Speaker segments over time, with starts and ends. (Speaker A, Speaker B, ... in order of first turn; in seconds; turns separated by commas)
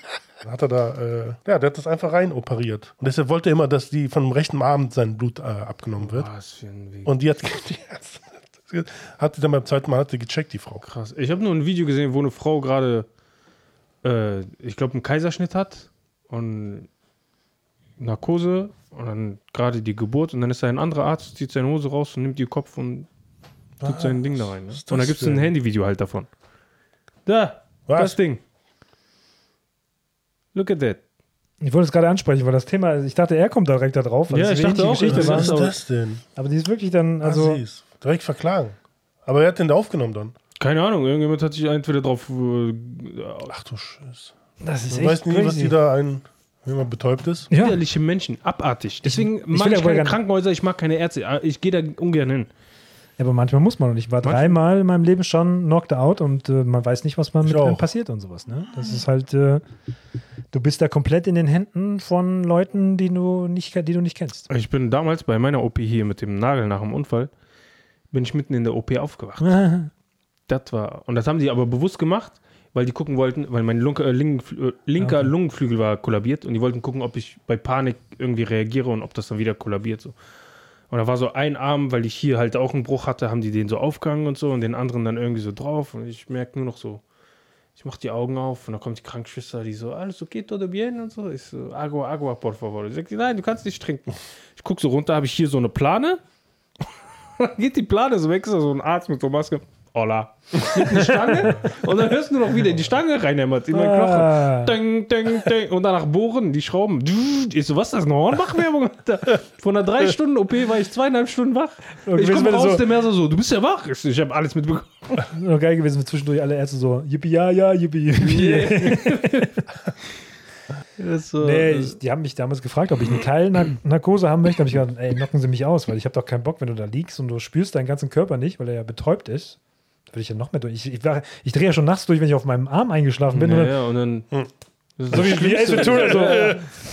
Speaker A: 0.4-6.3, Speaker B: 6.0-7.1, Speaker A: 7.0-10.8, Speaker B: 10.8-13.1, Speaker B: 14.0-16.9, Speaker B: 18.0-23.1, Speaker A: 23.8-25.5, Speaker B: 23.8-26.3, Speaker B: 27.3-28.4, Speaker A: 27.9-28.2, Speaker B: 30.5-31.0, Speaker C: 31.6-35.6, Speaker B: 34.3-35.8, Speaker A: 35.0-36.2, Speaker C: 36.4-37.6, Speaker A: 37.2-40.4, Speaker B: 40.6-43.5, Speaker A: 43.5-44.3, Speaker C: 44.6-45.8, Speaker A: 44.9-47.5, Speaker C: 47.5-47.8, Speaker B: 47.5-52.5, Speaker C: 49.0-50.2, Speaker C: 53.2-59.6, Speaker B: 54.2-54.6, Speaker A: 57.4-57.8, Speaker C: 60.5-64.5, Speaker B: 64.5-67.3, Speaker B: 68.1-69.6, Speaker C: 69.4-69.9, Speaker B: 70.5-80.2, Speaker C: 75.0-75.3, Speaker B: 80.9-87.0, Speaker B: 87.8-96.2, Speaker B: 97.4-115.2, Speaker C: 100.7-101.6, Speaker C: 103.7-104.8, Speaker C: 112.0-112.8, Speaker C: 115.3-119.5, Speaker B: 118.2-119.6, Speaker B: 121.0-122.0, Speaker C: 121.4-129.6, Speaker C: 130.1-133.8, Speaker B: 133.3-134.3, Speaker B: 135.0-136.6, Speaker C: 135.1-136.7, Speaker A: 135.1-136.6